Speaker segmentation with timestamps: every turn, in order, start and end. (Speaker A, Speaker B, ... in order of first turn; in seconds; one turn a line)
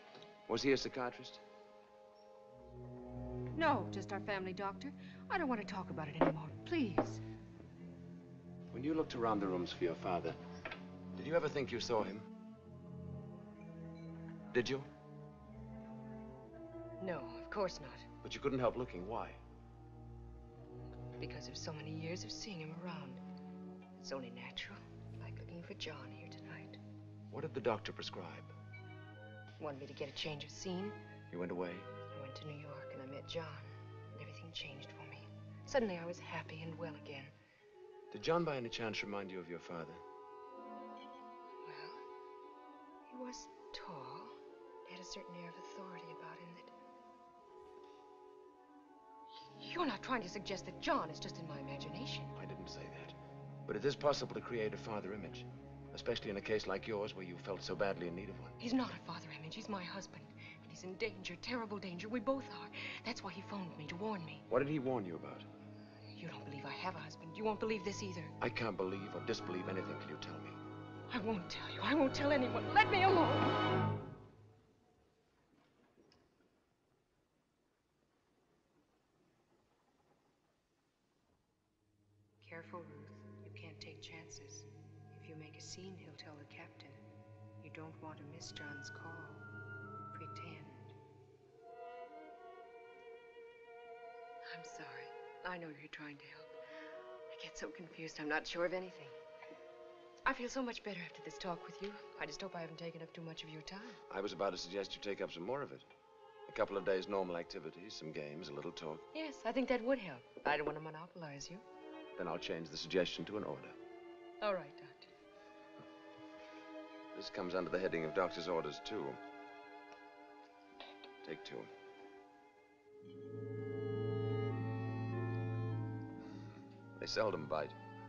Speaker A: 0.5-1.4
Speaker B: 3.5-7.2
Speaker A: 8.7-10.4
Speaker A: 11.1-12.3
Speaker A: 14.5-14.9
Speaker B: 17.0-18.1
Speaker A: 18.2-19.4
Speaker B: 21.2-23.2
Speaker B: 24.0-26.8
Speaker A: 27.3-28.5
Speaker B: 29.6-31.0
Speaker A: 31.3-31.9
Speaker B: 32.1-37.3
Speaker A: 38.1-40.0
Speaker B: 41.6-42.0
Speaker B: 43.1-46.7
Speaker B: 49.4-52.3
Speaker A: 52.3-58.6
Speaker B: 58.6-64.4
Speaker A: 64.5-65.5
Speaker B: 66.1-68.3
Speaker A: 68.4-70.6
Speaker B: 71.1-73.6
Speaker B: 82.4-87.0
Speaker B: 87.6-89.5
Speaker B: 90.1-91.0
Speaker B: 94.5-96.6
Speaker B: 97.3-99.2
Speaker B: 100.2-104.0
Speaker A: 104.1-105.8
Speaker A: 106.5-109.0
Speaker B: 109.1-111.6
Speaker A: 112.2-113.7
Speaker B: 114.4-115.1
Speaker A: 117.1-119.2
Speaker A: 121.2-121.7
Speaker A: 127.0-127.8